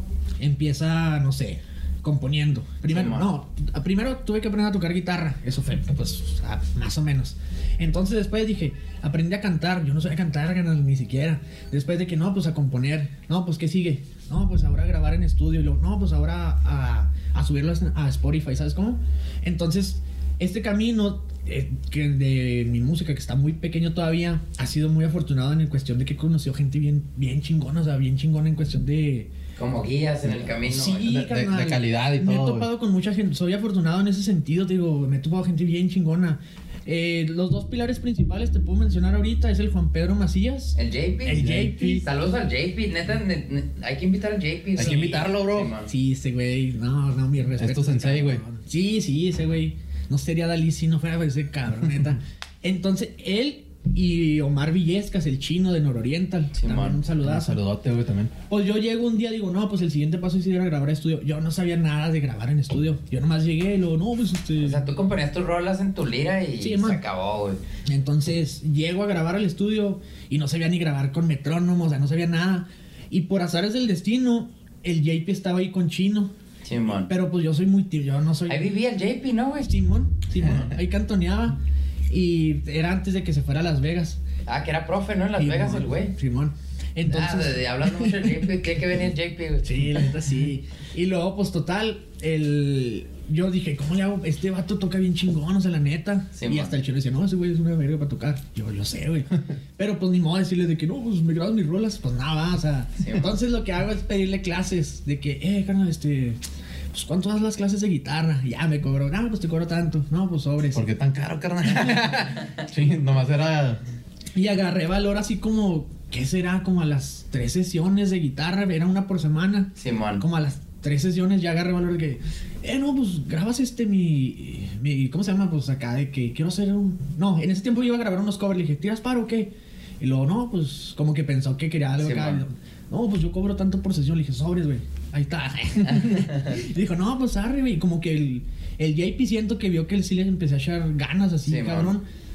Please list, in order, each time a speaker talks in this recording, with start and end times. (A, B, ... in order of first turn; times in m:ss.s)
0:00.4-0:29.3 A
0:02.9-0:03.3 B
0:29.6-0:31.2 B
0:30.6-0:42.0 A
0:30.9-0:32.7 C
0:40.8-0:41.4 B
0:41.3-0:42.0 C
0:42.0-0:45.9 B
0:44.8-0:45.7 C
0:44.8-0:57.6 A
0:47.6-0:48.4 C
0:56.6-0:57.0 B
0:57.2-0:58.3 C
0:58.5-1:04.8 A
1:04.6-1:07.6 B
1:06.6-1:07.0 A
1:07.8-1:16.3 A
1:16.6-1:17.1 B
1:17.0-1:18.7 A
1:18.5-1:19.7 B
1:19.6-1:21.6 A
1:20.4-1:20.7 B
1:22.1-1:24.2 A
1:24.5-1:26.1 B
1:25.4-1:28.4 A
1:27.1-1:29.6 B
1:29.6-1:46.4 A
1:36.4-1:36.7 B
1:43.0-1:43.3 B
1:46.9-1:50.9 A
1:50.7-1:53.8 C
1:54.3-2:22.0 A
1:59.8-2:00.2 B
2:12.0-2:12.4 B
2:16.0-2:16.4 B
2:21.4-2:21.9 B